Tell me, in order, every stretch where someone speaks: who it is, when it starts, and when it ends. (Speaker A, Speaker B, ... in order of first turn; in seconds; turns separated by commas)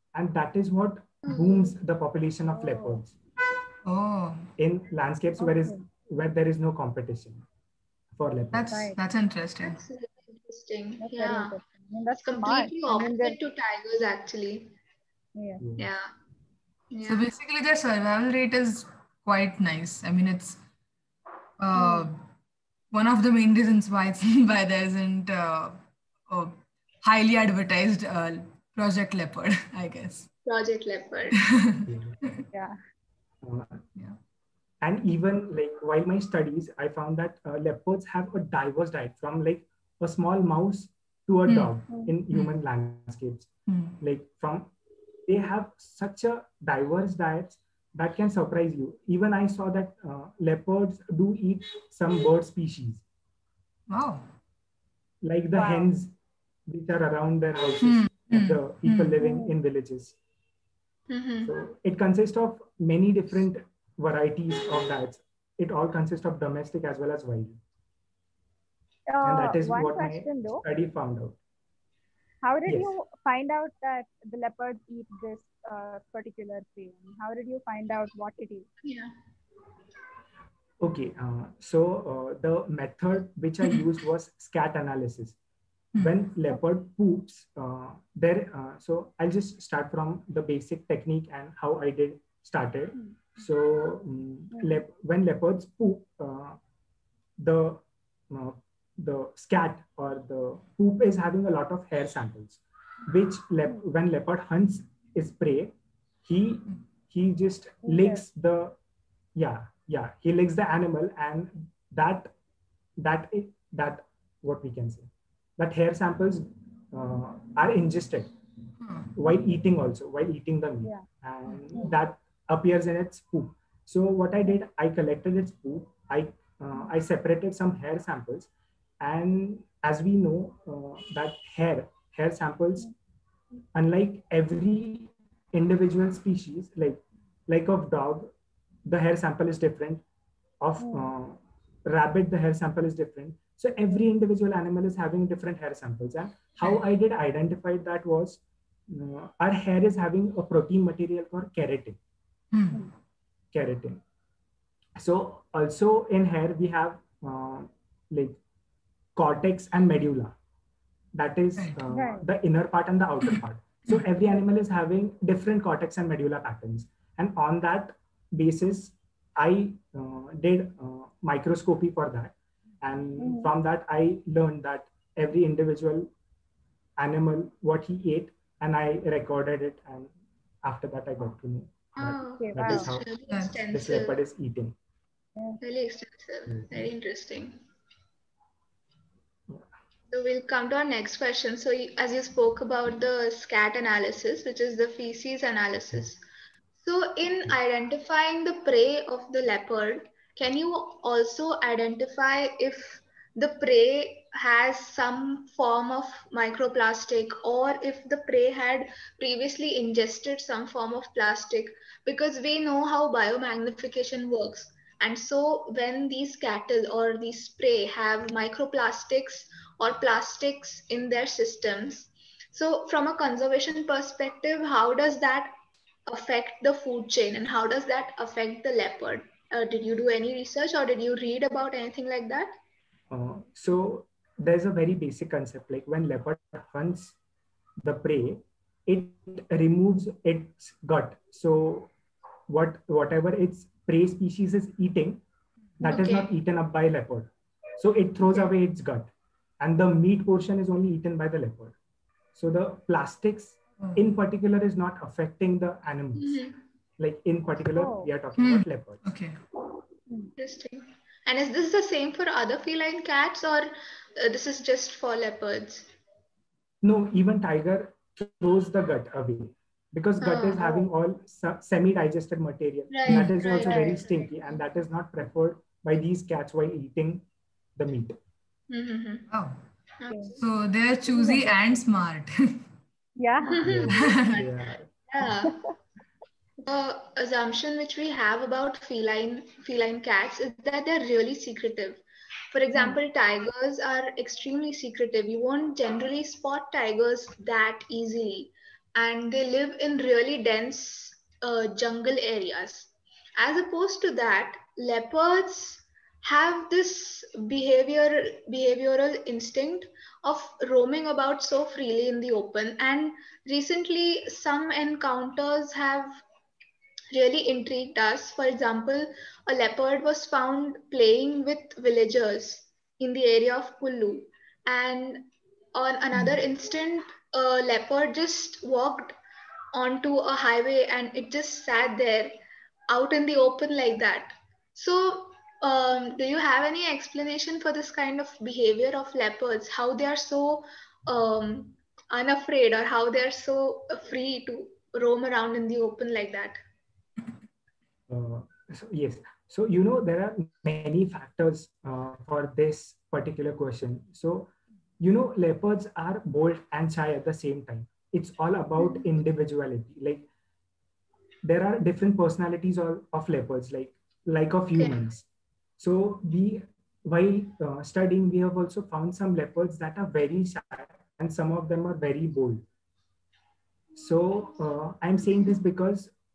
Speaker A: 0.1-3.1, Speaker B: 1.2-1.7, Speaker C: 2.5-3.0, Speaker D: 3.8-4.5, Speaker A: 4.6-7.4, Speaker C: 5.4-5.9, Speaker A: 8.1-8.9, Speaker D: 8.5-9.8, Speaker C: 8.7-9.0, Speaker B: 9.6-11.6, Speaker C: 11.0-13.4, Speaker B: 12.2-14.8, Speaker C: 15.4-15.6, Speaker A: 15.6-15.9, Speaker B: 15.8-16.1, Speaker B: 16.9-17.3, Speaker D: 17.1-20.6, Speaker D: 21.6-22.2, Speaker D: 22.9-30.3, Speaker B: 30.4-31.4, Speaker D: 31.4-32.4, Speaker A: 31.8-32.2, Speaker A: 33.4-33.8, Speaker A: 34.8-43.5, Speaker D: 41.5-41.8, Speaker D: 43.7-44.0, Speaker A: 44.0-44.7, Speaker A: 45.3-53.0, Speaker D: 53.9-54.3, Speaker A: 55.2-56.1, Speaker C: 55.5-55.9, Speaker A: 56.7-60.2, Speaker D: 57.8-59.2, Speaker C: 59.2-59.5, Speaker B: 61.1-61.5, Speaker A: 61.4-67.6, Speaker C: 69.1-70.6, Speaker A: 69.2-71.4, Speaker C: 72.4-78.7, Speaker A: 72.7-73.0, Speaker B: 78.8-79.1, Speaker A: 80.8-85.4, Speaker D: 85.9-86.2, Speaker A: 86.0-96.6, Speaker C: 94.5-94.8, Speaker A: 97.4-105.7, Speaker A: 106.2-108.8, Speaker C: 107.8-108.2, Speaker A: 109.4-112.3, Speaker A: 113.0-118.3, Speaker D: 118.8-119.1, Speaker A: 119.2-128.5, Speaker A: 129.0-132.9, Speaker A: 133.8-138.3, Speaker A: 138.9-140.0, Speaker A: 140.6-152.0, Speaker C: 140.8-141.1, Speaker D: 152.5-152.8, Speaker A: 153.5-154.0, Speaker A: 155.0-158.4, Speaker A: 159.2-160.4, Speaker A: 161.1-176.1, Speaker D: 161.6-161.8, Speaker C: 161.9-162.2, Speaker D: 163.3-164.0, Speaker C: 173.2-173.5, Speaker A: 177.0-180.1, Speaker A: 180.6-183.1, Speaker B: 181.9-184.2, Speaker C: 182.4-182.9, Speaker D: 183.3-183.6, Speaker A: 183.7-184.8, Speaker B: 185.6-187.6, Speaker A: 186.5-186.9, Speaker B: 190.1-196.2, Speaker B: 196.8-225.5, Speaker B: 226.1-232.5, Speaker A: 233.1-237.2, Speaker A: 237.8-241.9, Speaker A: 242.5-245.2, Speaker A: 245.8-249.1, Speaker B: 245.8-246.3, Speaker A: 249.6-251.8, Speaker A: 252.3-256.4, Speaker B: 256.2-256.6, Speaker A: 257.0-259.0, Speaker C: 257.8-258.1, Speaker D: 258.4-259.4, Speaker B: 260.4-265.9, Speaker A: 266.8-277.2, Speaker B: 270.2-270.8, Speaker B: 272.9-274.6, Speaker D: 273.1-273.3, Speaker C: 273.6-274.1, Speaker A: 277.8-278.2, Speaker B: 278.7-279.2, Speaker D: 279.3-279.6, Speaker B: 280.0-280.4, Speaker C: 280.1-280.4, Speaker D: 280.4-282.6, Speaker C: 281.1-281.8, Speaker C: 283.2-283.6, Speaker B: 283.4-285.6, Speaker A: 283.6-284.9, Speaker D: 283.9-284.3, Speaker B: 286.6-316.1, Speaker B: 317.1-329.2, Speaker B: 329.7-332.4, Speaker B: 332.9-346.6, Speaker A: 348.1-354.5, Speaker A: 355.0-360.3, Speaker A: 361.4-365.2, Speaker B: 364.7-365.0, Speaker A: 365.8-372.6, Speaker A: 373.9-376.1